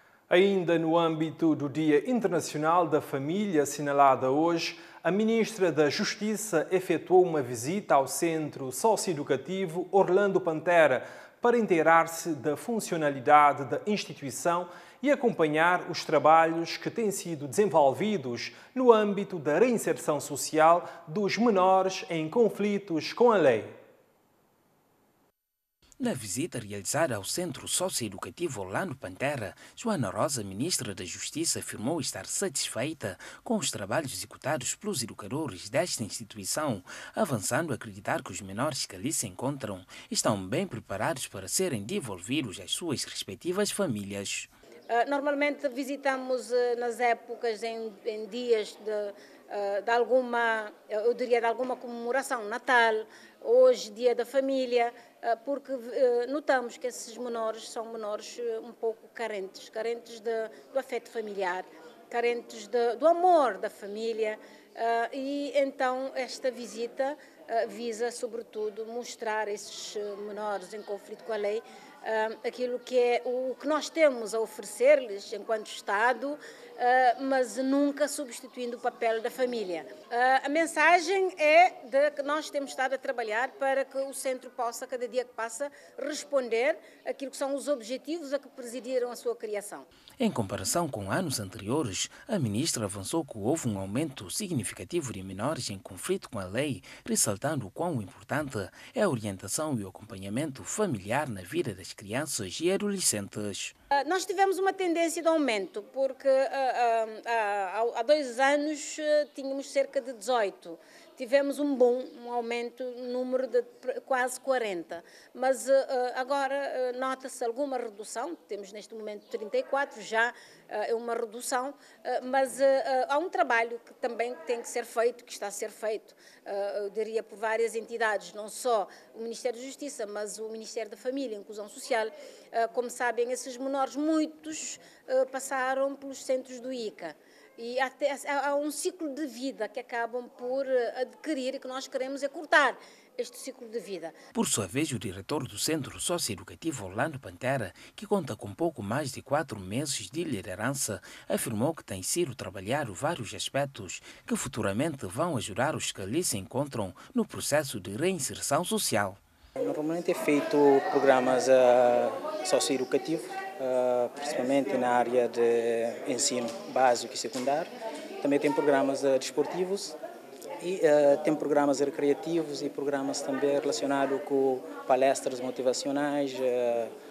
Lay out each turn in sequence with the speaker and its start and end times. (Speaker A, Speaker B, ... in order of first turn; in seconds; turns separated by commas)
Speaker A: 0.3-23.8, Speaker B: 26.0-44.5, Speaker C: 44.9-89.9, Speaker B: 90.2-103.7, Speaker C: 103.9-144.2, Speaker B: 144.3-159.2, Speaker D: 159.6-167.7, Speaker D: 168.2-169.9, Speaker D: 170.6-176.9